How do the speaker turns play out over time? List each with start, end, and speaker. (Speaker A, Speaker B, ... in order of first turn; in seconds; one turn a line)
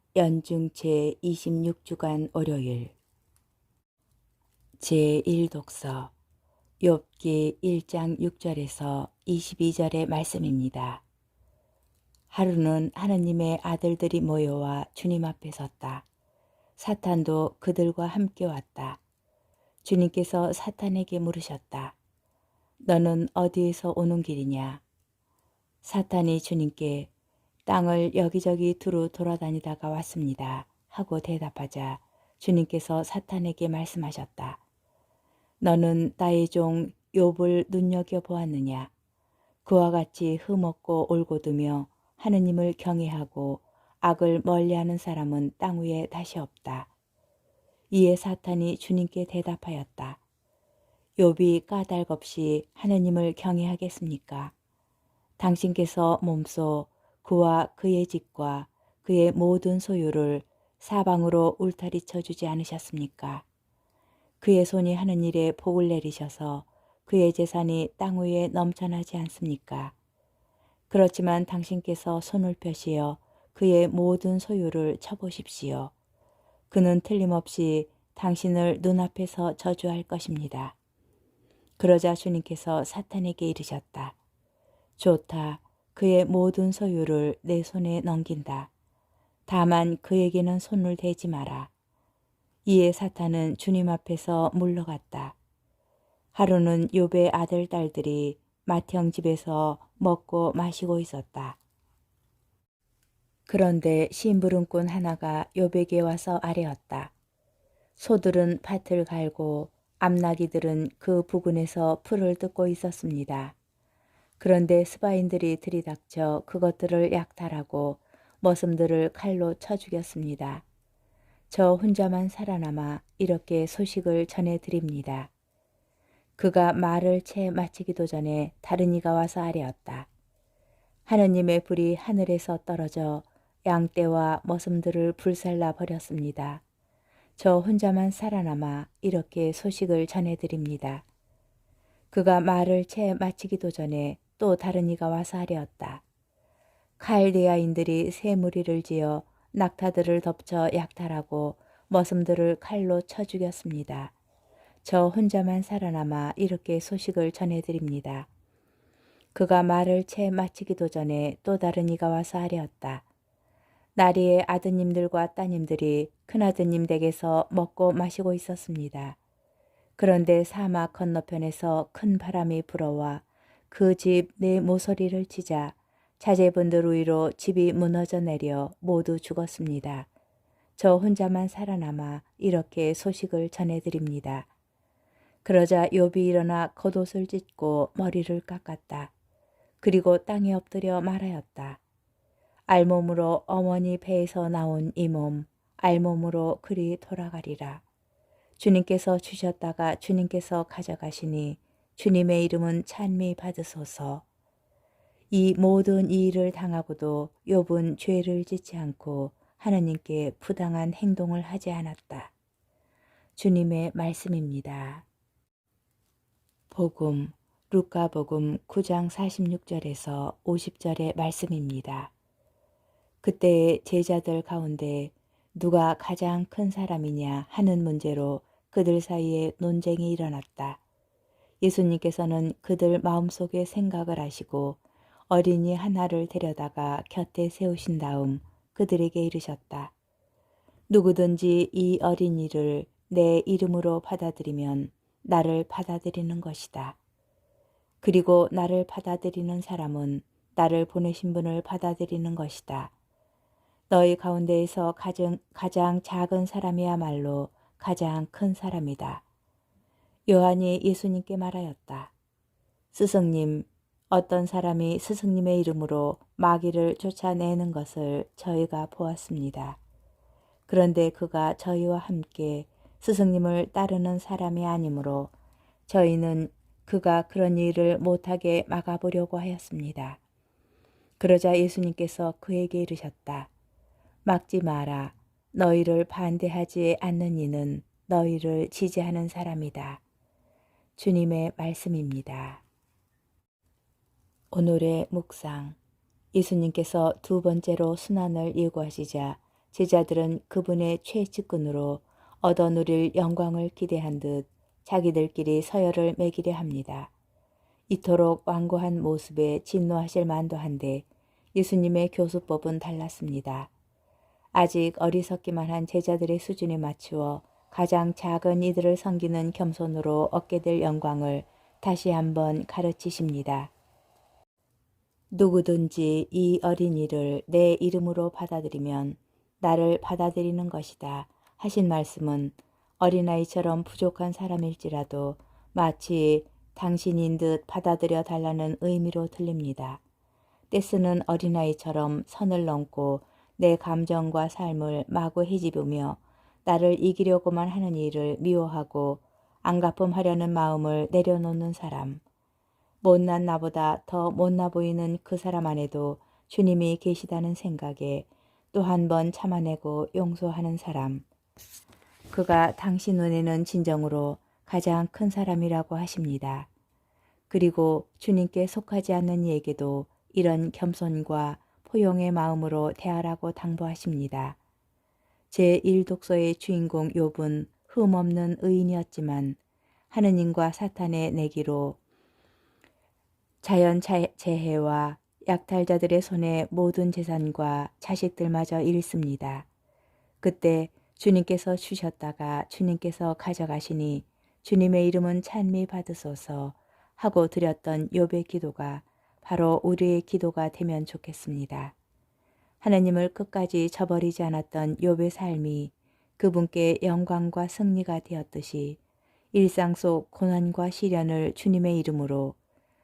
Speaker A: 0.1-2.9
Speaker A: 4.8-6.1
Speaker A: 6.8-11.0
Speaker A: 12.3-16.1
Speaker A: 16.8-19.0
Speaker A: 19.8-22.0
Speaker A: 22.8-24.8
Speaker A: 25.8-27.1
Speaker A: 27.7-34.6
Speaker A: 35.6-38.9
Speaker A: 39.6-46.9
Speaker A: 47.9-50.2
Speaker A: 51.2-54.5
Speaker A: 55.4-63.4
Speaker A: 64.4-69.9
Speaker A: 70.9-75.9
Speaker A: 76.7-80.8
Speaker A: 81.8-84.2
Speaker A: 85.0-88.7
Speaker A: 89.5-91.7
Speaker A: 92.7-95.4
Speaker A: 96.3-101.6
Speaker A: 103.5-107.1
Speaker A: 108.0-113.5
Speaker A: 114.4-120.6
Speaker A: 121.5-125.3
Speaker A: 126.4-130.1
Speaker A: 131.1-136.6
Speaker A: 137.4-141.1
Speaker A: 142.1-146.0
Speaker A: 147.0-154.1
Speaker A: 154.8-158.3
Speaker A: 159.3-163.1
Speaker A: 164.0-169.2
Speaker A: 170.0-180.1
Speaker A: 180.8-184.5
Speaker A: 185.4-189.1
Speaker A: 189.8-191.8
Speaker A: 192.7-197.8
Speaker A: 198.6-204.2
Speaker A: 205.3-212.3
Speaker A: 213.4-215.1
Speaker A: 216.7-222.1
Speaker A: 223.2-230.8
Speaker A: 231.6-239.9
Speaker A: 240.9-247.0
Speaker A: 248.0-252.9
Speaker A: 253.9-259.2
Speaker A: 260.3-262.1
Speaker A: 262.9-269.8
Speaker A: 270.7-275.3
Speaker A: 275.9-280.2
Speaker A: 281.2-283.5
Speaker A: 284.2-290.0
Speaker A: 291.0-292.6
Speaker A: 294.5-295.8
Speaker A: 296.3-307.1
Speaker A: 307.9-313.7
Speaker A: 314.5-323.7
Speaker A: 325.3-340.0
Speaker A: 340.7-352.2
Speaker A: 353.0-361.2
Speaker A: 362.3-366.7
Speaker A: 367.5-374.6
Speaker A: 375.5-379.6
Speaker A: 380.1-382.0
Speaker A: 383.6-389.7
Speaker A: 390.4-401.9
Speaker A: 402.8-409.0
Speaker A: 409.5-412.6